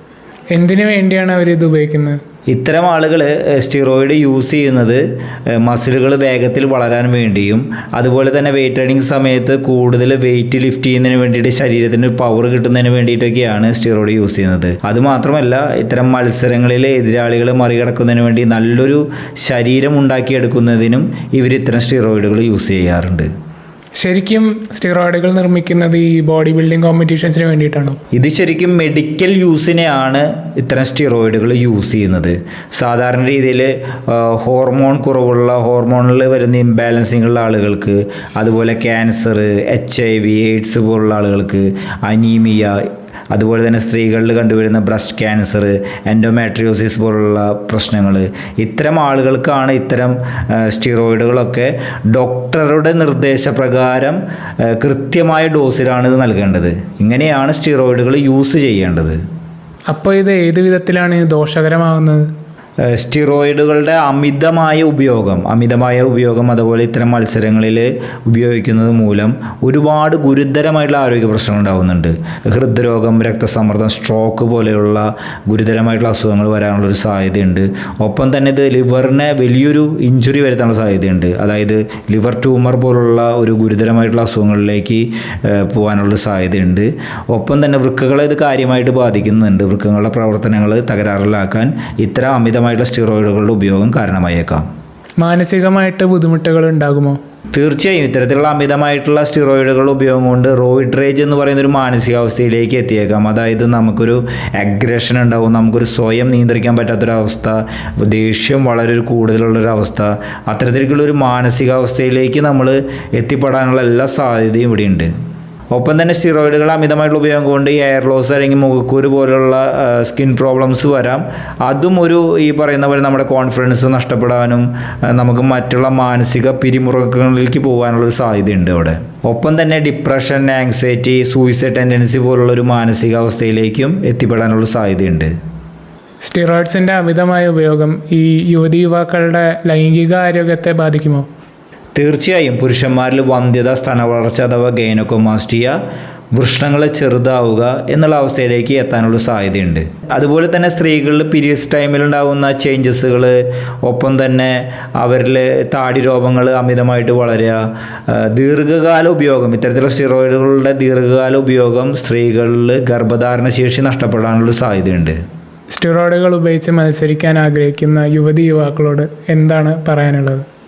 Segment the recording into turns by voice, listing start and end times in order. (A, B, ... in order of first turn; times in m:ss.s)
0:00.5-0:02.2 A
0:02.5-0:05.0 B
0:05.6-0:23.3 B
0:24.0-0:28.0 A
0:28.1-0:59.2 B
0:59.9-1:02.3 A
1:02.8-1:34.6 B
1:35.2-1:37.2 A
1:37.5-1:55.1 B
1:55.7-2:15.3 B
2:16.2-2:21.3 A
2:21.9-2:25.8 B
2:26.4-2:45.2 B
2:45.7-2:50.4 A